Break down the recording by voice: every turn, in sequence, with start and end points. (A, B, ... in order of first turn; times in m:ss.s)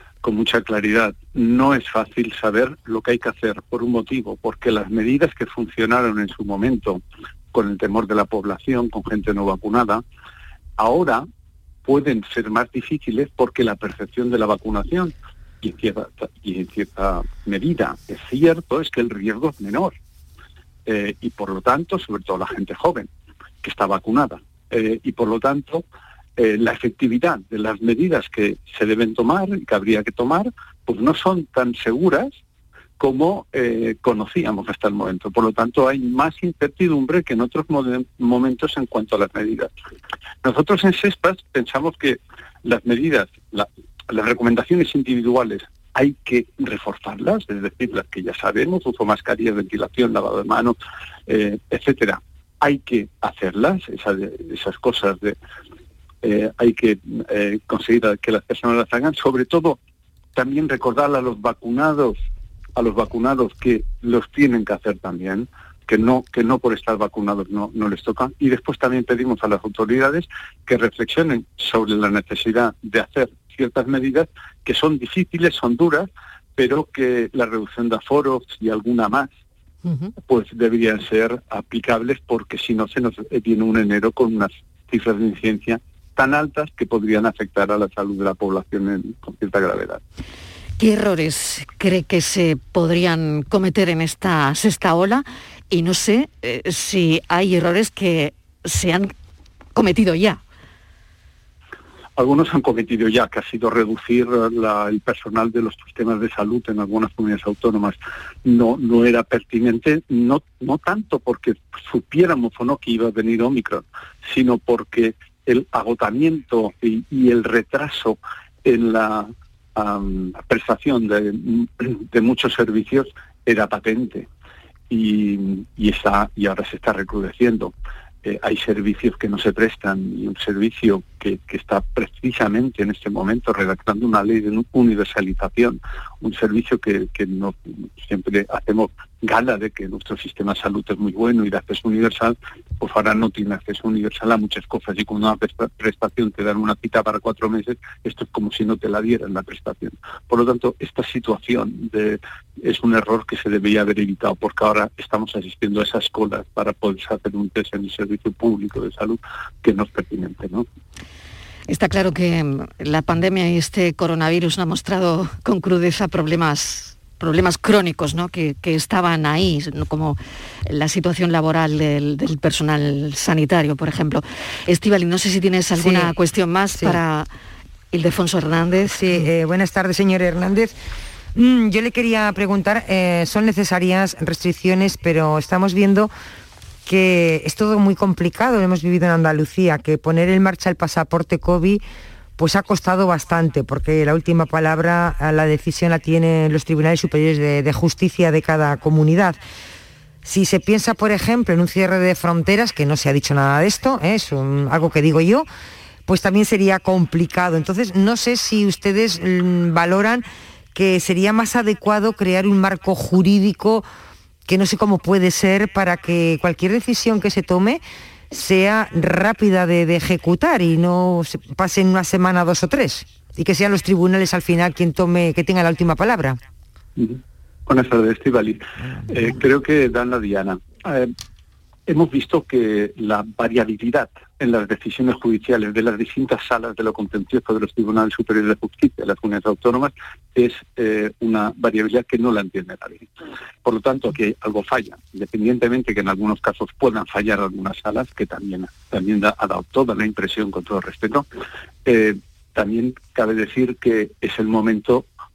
0:00.2-0:07.0 A
0:07.5-0:10.0 A
0:10.8-0:11.3 A
0:11.8-0:19.9 A
0:20.9-0:23.1 A
0:23.6-0:25.8 A
0:26.4-0:32.3 A
0:33.0-0:39.7 A
0:40.4-0:50.8 A
0:51.3-0:55.4 A
0:56.2-0:59.8 A
1:00.4-1:02.2 A
1:02.8-1:19.3 A
1:19.9-1:20.1 B
1:20.3-1:30.0 A
1:30.8-1:39.1 B
1:39.8-1:40.4 B
1:42.2-2:04.3 A
2:04.9-2:07.7 A
2:08.2-2:40.7 A
2:41.7-2:57.3 B
2:55.8-2:56.1 C
2:57.9-2:59.2 B
2:58.9-3:00.7 C
3:01.4-3:06.1 C
3:06.9-3:11.8 C
3:12.4-3:19.4 C
3:20.2-3:25.5 C
3:26.1-3:33.9 C
3:34.5-3:46.4 C
3:47.0-3:51.1 A
3:51.9-4:03.1 A
4:03.6-4:11.3 A
4:11.9-4:15.1 A